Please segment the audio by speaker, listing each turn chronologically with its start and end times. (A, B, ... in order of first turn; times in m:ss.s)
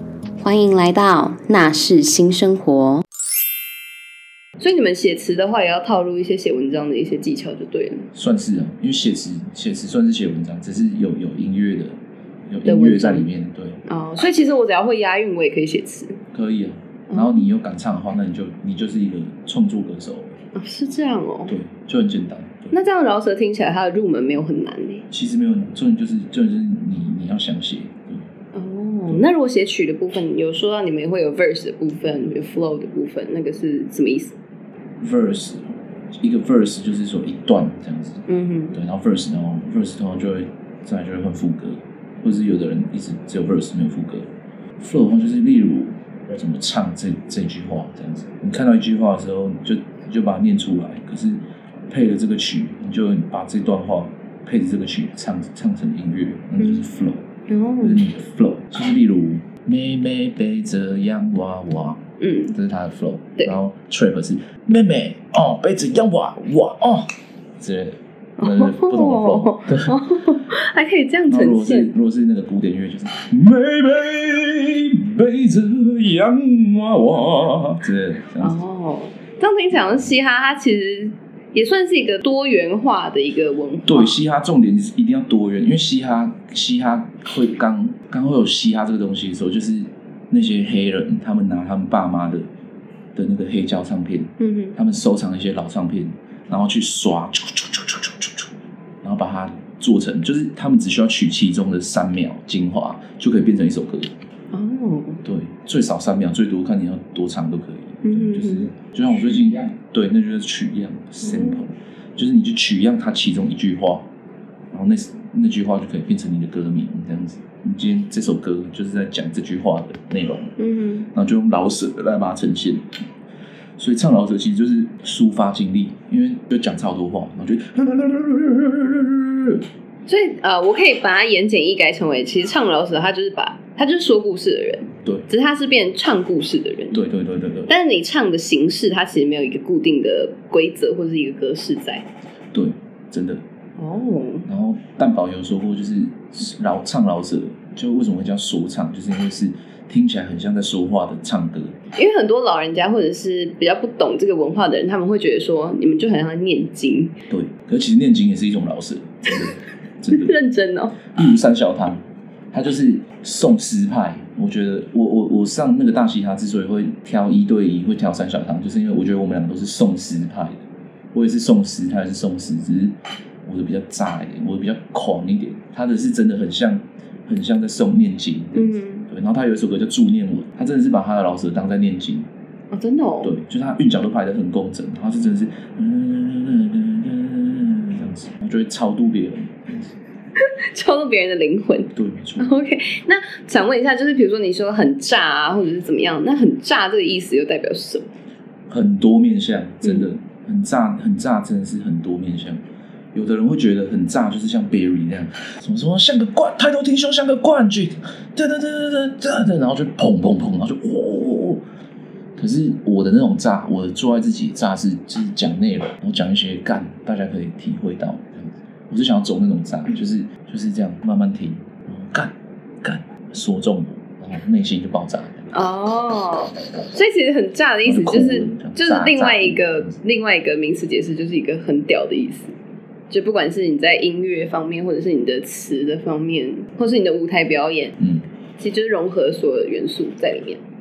0:00.4-0:03.0 A
0:04.6-0:08.1 B
0:08.2-0:12.0 C
0:12.5-0:13.8 C
0:12.6-0:13.2 B
0:13.9-0:16.2 B
0:16.3-0:20.4 C
0:17.1-0:17.5 B
0:20.6-0:21.5 B
0:21.5-0:22.8 C
0:22.7-0:25.0 B
0:25.1-0:28.3 C
0:28.5-0:34.4 B
0:35.0-0:44.3 C
0:38.3-0:38.8 B
0:44.8-0:57.2 C
0:56.6-0:56.9 B
0:57.5-0:58.0 B
0:57.8-1:02.0 C
1:02.2-1:02.6 B
1:02.5-1:10.0 C
1:08.4-1:11.9 B
1:11.3-1:18.6 C
1:18.4-1:24.2 B
1:19.7-1:20.0 C
1:23.8-1:32.4 C
1:33.2-1:38.5 C
1:34.4-1:34.8 B
1:39.0-1:44.1 C
1:44.5-1:45.2 B
1:45.2-1:54.0 C
1:48.0-1:48.7 B
1:51.2-1:51.6 B
1:54.7-2:00.6 C
2:00.6-2:01.1 B
2:01.1-2:02.8 C
2:03.8-2:09.6 C
2:10.1-2:17.0 B
2:16.9-2:17.7 C
2:17.7-2:22.0 B
2:22.5-2:23.4 C
2:23.8-2:24.5 B
2:24.5-2:31.7 C
2:32.0-2:37.1 B
2:37.3-2:40.3 C
2:40.1-2:41.0 B
2:41.1-2:42.0 C
2:42.5-2:50.6 C
2:51.1-2:53.0 C
2:53.5-3:02.3 C
2:58.6-2:59.1 B
3:02.7-3:03.3 B
3:03.2-3:10.0 C
3:10.4-3:18.1 B
3:12.0-3:12.5 C
3:18.7-3:22.6 C
3:23.1-3:31.6 C
3:32.4-3:45.6 C
3:45.5-3:52.5 B
3:47.8-3:50.0 C
3:53.1-3:57.9 B
3:58.0-3:58.2 C
3:58.6-4:00.6 B